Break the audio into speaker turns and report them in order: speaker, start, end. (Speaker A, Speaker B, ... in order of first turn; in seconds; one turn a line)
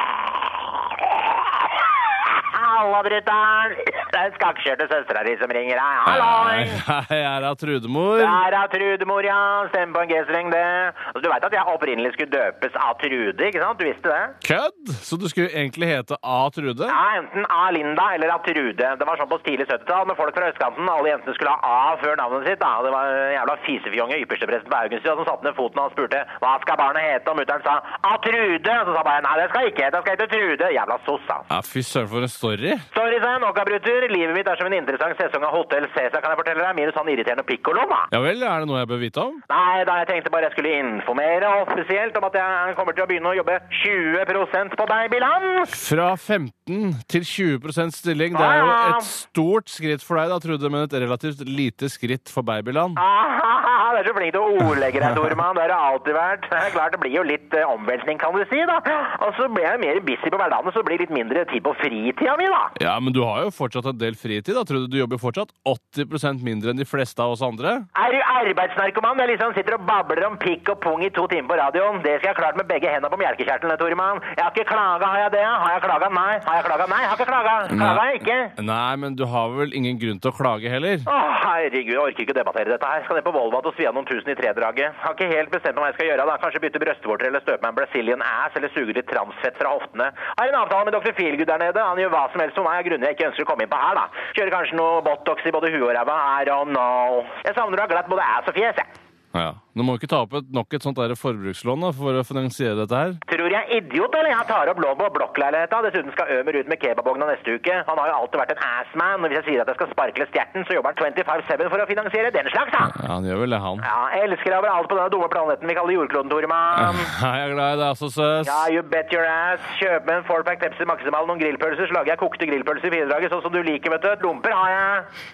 Speaker A: 2.3-6.8
Speaker B: 6.0-8.4
Speaker A: 8.2-14.4
Speaker B: 14.4-17.0
Speaker A: 16.9-31.5
Speaker B: 31.5-32.9
Speaker A: 32.9-38.1
Speaker B: 38.1-39.4
Speaker A: 39.5-45.7
Speaker B: 45.7-53.0
Speaker A: 48.3-49.1
Speaker A: 53.0-62.7
Speaker B: 62.8-67.9
Speaker A: 67.9-78.5
Speaker B: 77.7-78.0
Speaker B: 78.6-81.1
Speaker A: 81.0-98.9
Speaker B: 99.3-103.2
Speaker A: 103.3-113.0
Speaker B: 112.8-113.8
Speaker A: 113.8-117.1
Speaker B: 116.7-118.7
Speaker A: 118.4-125.1